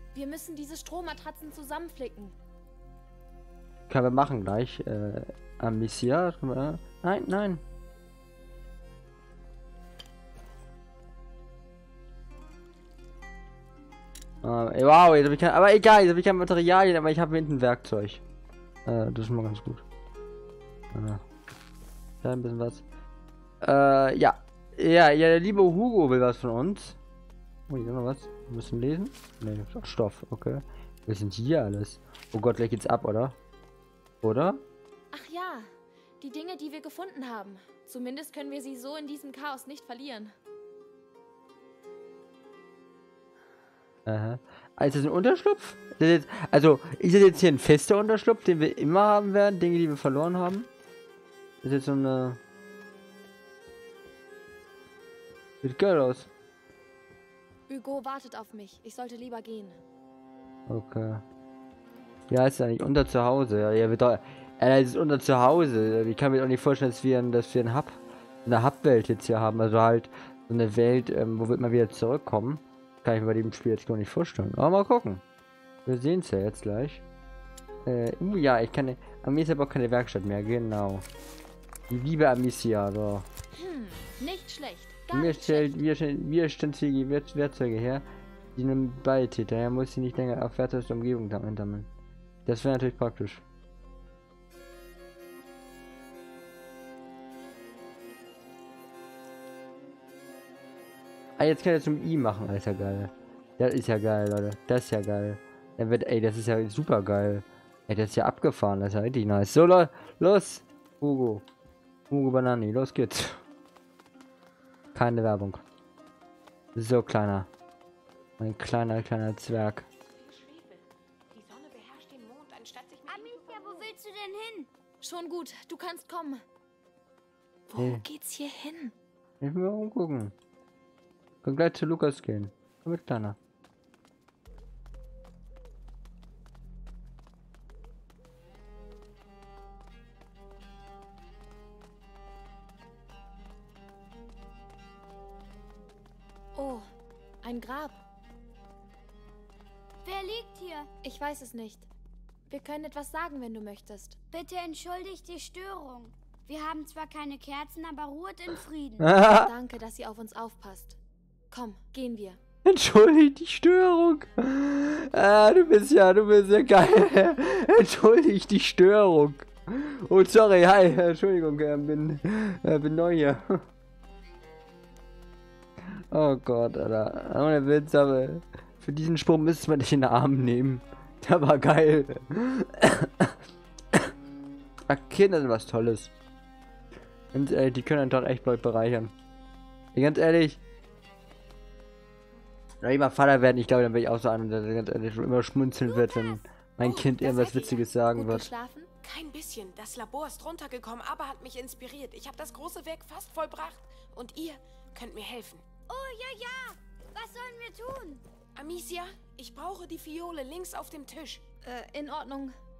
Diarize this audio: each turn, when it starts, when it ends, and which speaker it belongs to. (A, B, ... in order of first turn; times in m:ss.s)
0:00.1-0:02.4 A
0:03.9-0:07.6 B
0:14.4-0:18.2 B
0:18.8-0:19.8 B
0:20.9-0:21.2 B
0:22.2-0:22.8 B
0:23.6-0:27.0 B
0:27.7-0:33.4 B
0:34.2-0:34.6 B
0:35.1-0:40.3 A
0:44.0-0:50.7 B
0:51.6-0:52.4 B
0:55.6-0:56.3 B
0:57.7-0:59.8 A
1:00.7-1:01.2 B
1:02.3-1:15.2 B
1:15.8-1:17.0 B
1:17.8-1:21.0 B
1:21.9-1:23.3 B
1:23.6-1:25.7 A
1:25.1-1:31.9 B
1:32.4-1:33.4 B
1:41.4-1:51.4 B
1:52.1-1:53.4 B
1:54.9-1:55.6 B
1:56.8-1:57.5 B
1:58.4-1:59.9 B
2:00.0-2:03.9 C
2:03.1-2:04.7 D
2:05.0-2:06.4 A
2:07.7-2:08.9 A
2:07.8-2:08.0 B
2:09.4-2:10.3 B
2:11.4-2:13.4 B
2:26.5-2:26.8 A
2:27.4-2:28.0 A
2:30.0-2:30.9 D
2:31.0-2:31.9 A
2:32.5-2:34.2 A
2:34.3-2:39.1 D
2:39.0-2:39.5 B
2:39.2-2:41.0 A
2:41.5-2:42.4 A
2:42.6-2:53.6 B
2:56.1-3:03.3 B
3:04.9-3:06.1 B
3:07.3-3:09.1 B
3:09.9-3:10.6 B
3:12.8-3:18.5 B
3:15.8-3:17.7 D
3:16.9-3:18.9 A
3:19.0-3:25.6 C
3:25.9-3:28.2 D
3:28.5-3:31.4 C
3:31.6-3:32.6 A